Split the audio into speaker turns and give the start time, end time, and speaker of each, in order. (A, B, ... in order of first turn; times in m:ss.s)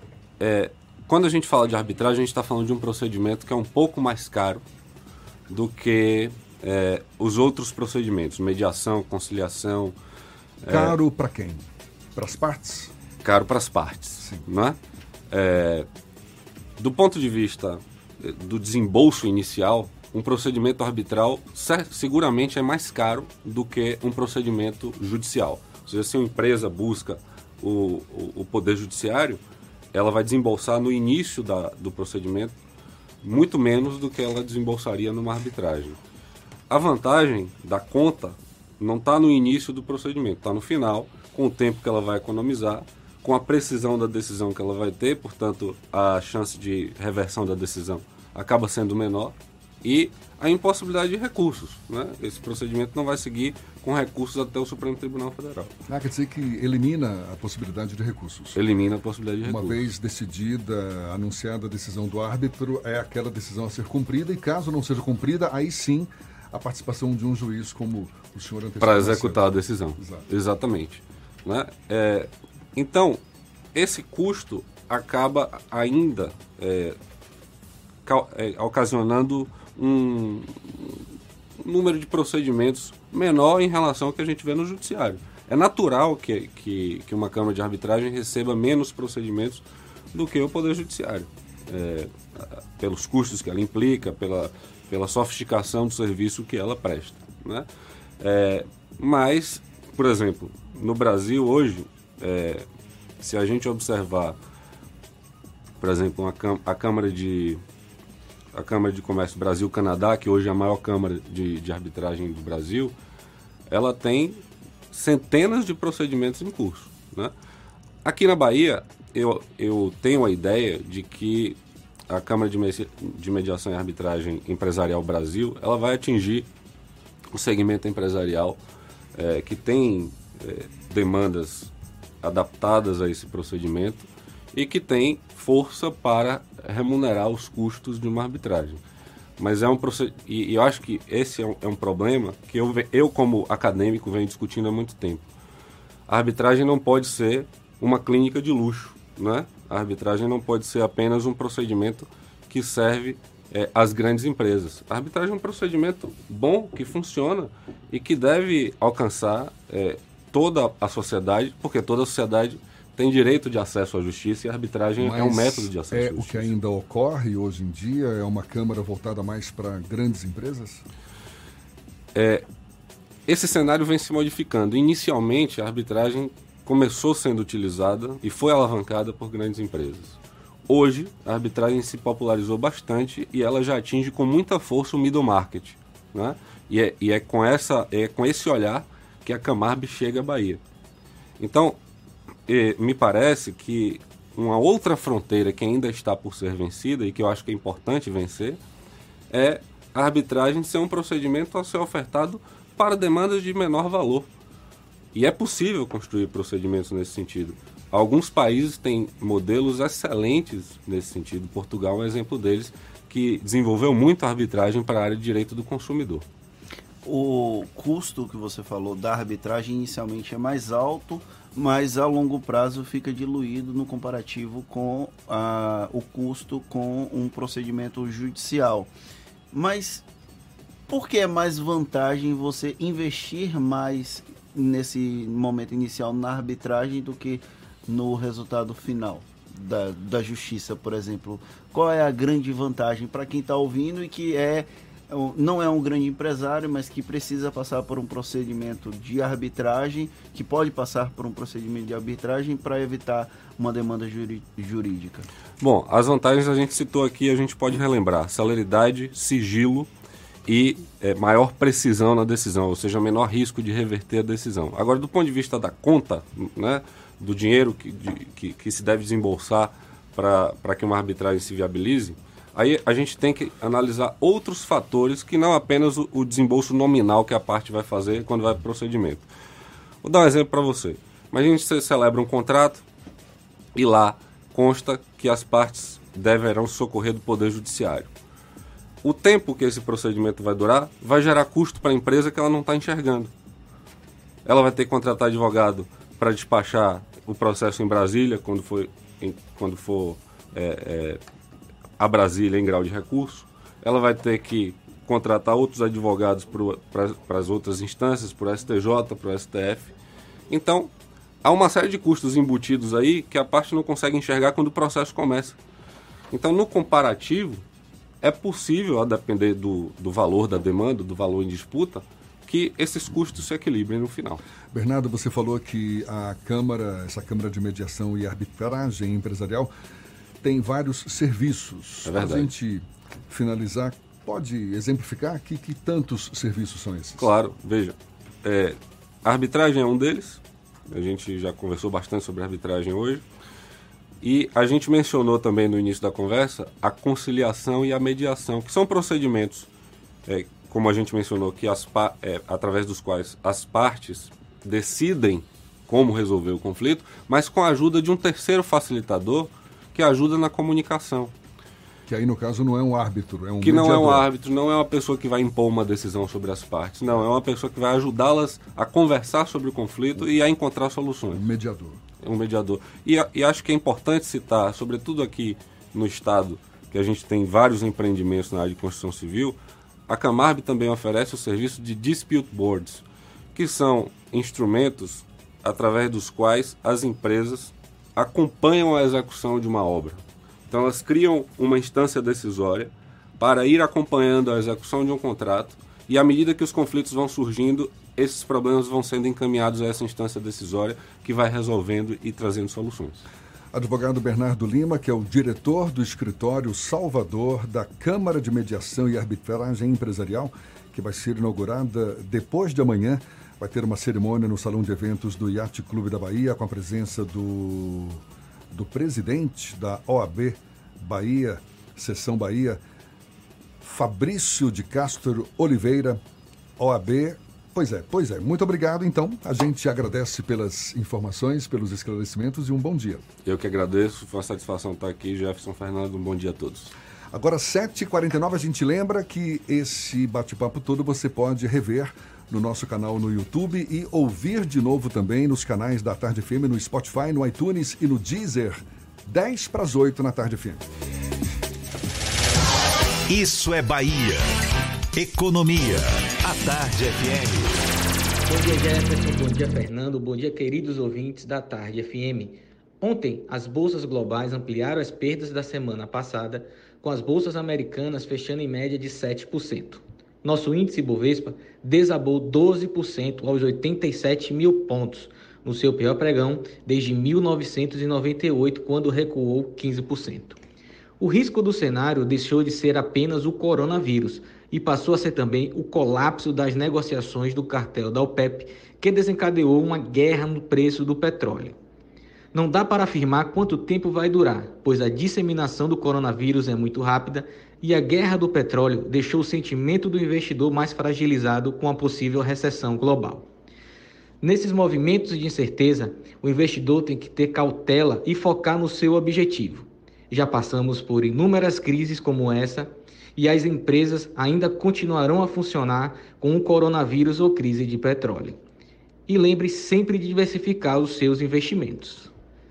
0:00.4-0:04.6 A
0:05.5-0:09.9 A
0:10.6-0:11.0 A
0:10.7-0:12.9 B
0:13.2-0:14.8 A
0:15.3-0:15.9 A
0:16.8-0:29.4 A
0:29.9-0:32.5 A
0:33.2-0:36.0 A
0:36.7-0:55.7 A
0:55.9-0:58.6 B
0:58.5-0:59.8 A
0:59.4-1:09.4 B
1:08.8-1:13.2 A
1:10.0-1:10.2 B
1:13.7-1:17.0 A
1:18.0-1:21.0 A
1:21.6-1:29.6 A
1:30.1-1:37.7 A
1:38.2-1:42.6 A
1:43.2-1:44.4 A
1:45.8-1:47.6 A
1:48.5-1:52.9 A
1:53.7-1:54.4 A
1:54.9-1:57.3 A
1:58.0-2:01.6 A
2:02.1-2:06.5 A
2:07.3-2:08.6 A
2:09.1-2:18.8 A
2:19.4-2:25.2 A
2:26.1-2:46.5 A
2:45.0-2:50.8 B
2:52.1-2:52.4 A
2:53.3-3:00.2 A
3:00.7-3:10.6 A
3:11.4-3:11.8 A
3:12.5-3:18.6 A
3:19.3-3:24.3 A
3:25.1-3:36.2 A
3:37.0-3:48.9 C
3:49.5-3:50.0 C
3:50.9-4:15.3 C
4:15.6-4:19.9 A
4:20.4-4:39.3 A
4:40.0-4:42.8 A
4:43.7-4:48.1 A
4:49.0-4:53.3 A
4:54.4-5:01.2 A
5:02.0-5:09.9 A
5:10.5-5:10.9 A
5:11.4-5:15.6 A
5:16.3-5:17.6 A
5:18.2-5:24.4 A
5:24.7-5:29.7 B
5:30.4-5:37.3 B
5:32.0-5:32.5 A
5:37.2-5:43.2 A
5:44.2-5:49.7 A
5:50.3-6:01.3 A
6:02.1-6:04.2 B
6:03.6-6:11.4 A
6:11.3-6:12.0 B
6:12.2-6:19.6 A
6:20.1-6:23.0 A
6:23.5-6:43.2 A
6:43.7-7:02.8 B
7:03.8-7:06.2 B
7:06.8-7:13.2 B
7:13.4-7:16.9 A
7:17.3-7:30.8 B
7:33.3-7:34.5 D
7:35.2-7:37.8 D
7:38.5-8:00.6 E
8:01.2-8:11.8 E
8:12.5-8:23.5 E
8:24.4-8:38.6 E
8:39.3-8:42.3 E